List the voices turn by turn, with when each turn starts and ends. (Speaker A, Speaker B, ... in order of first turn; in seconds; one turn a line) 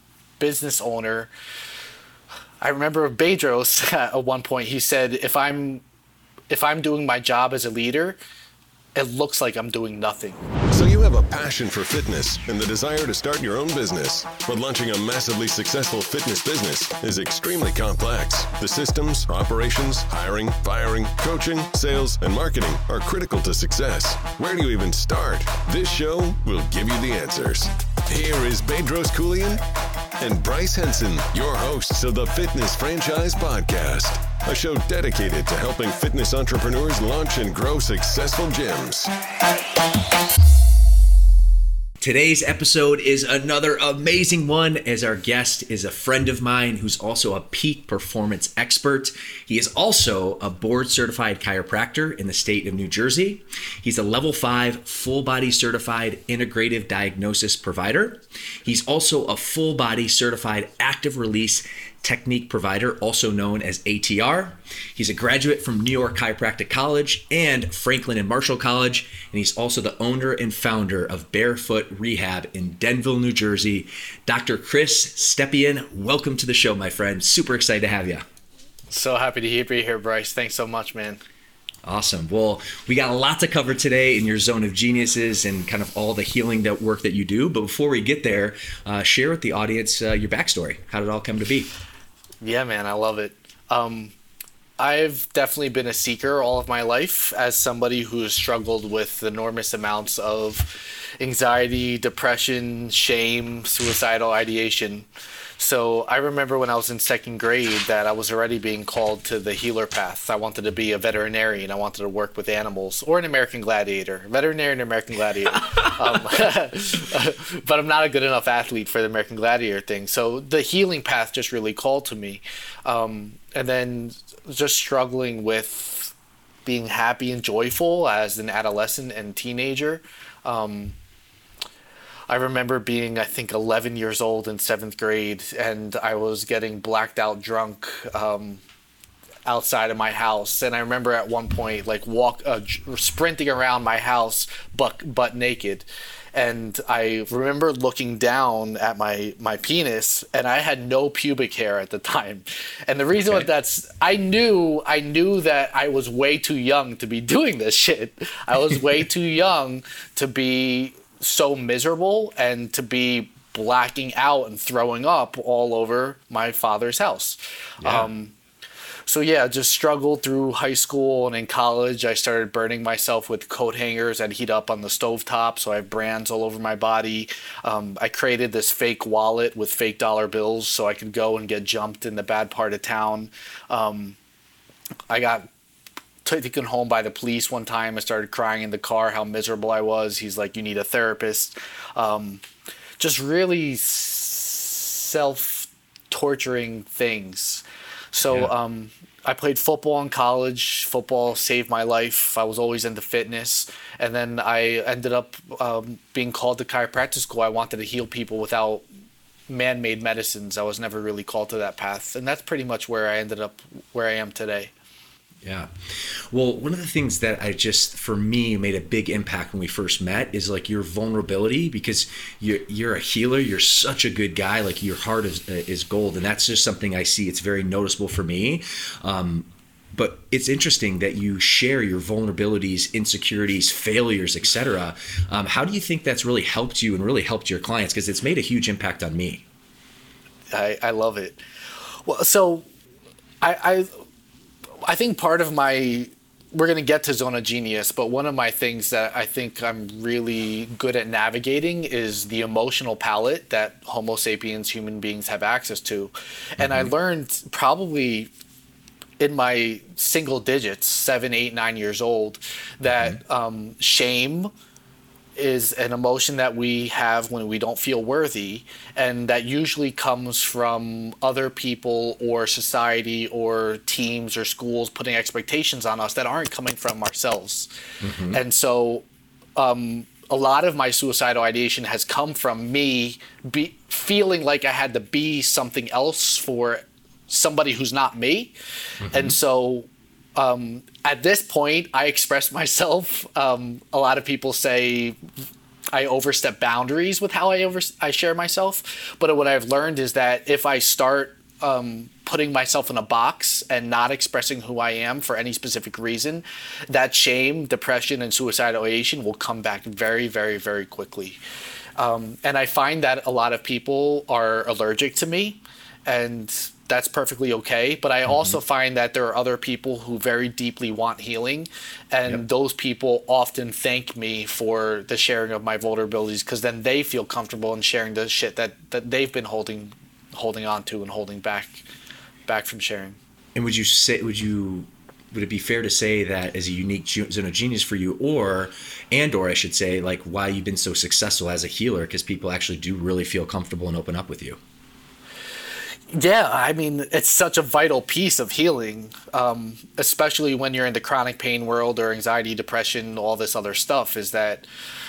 Speaker A: 0.4-1.3
Speaker A: 2.6-5.8
Speaker A: 6.5-8.2
Speaker A: 8.9-10.4
Speaker B: 10.7-29.6
Speaker B: 30.2-39.1
Speaker C: 42.0-78.2
Speaker A: 78.9-81.2
Speaker C: 81.8-91.7
Speaker A: 92.4-94.1
Speaker A: 94.8-105.1
Speaker A: 105.6-126.1
Speaker A: 126.7-131.0
Speaker A: 132.3-138.6
Speaker A: 139.4-168.3
Speaker C: 153.2-153.5
Speaker C: 167.8-168.1
Speaker A: 169.1-184.2
Speaker A: 185.1-185.5
Speaker A: 186.2-192.4
Speaker A: 193.0-208.8
Speaker A: 209.5-214.7
Speaker C: 215.4-239.4
Speaker A: 240.5-241.4
Speaker A: 242.0-242.7
Speaker A: 243.4-243.9
Speaker A: 244.8-258.3
Speaker C: 256.6-256.9
Speaker A: 259.2-264.5
Speaker C: 262.9-263.2
Speaker A: 265.4-277.7
Speaker C: 278.0-278.4
Speaker A: 278.3-279.0
Speaker A: 279.6-288.5
Speaker C: 289.0-289.4
Speaker A: 289.1-295.2
Speaker A: 295.9-311.4
Speaker A: 312.0-331.8
Speaker C: 318.3-318.6
Speaker A: 332.5-333.2
Speaker C: 333.5-344.6
Speaker A: 346.1-354.6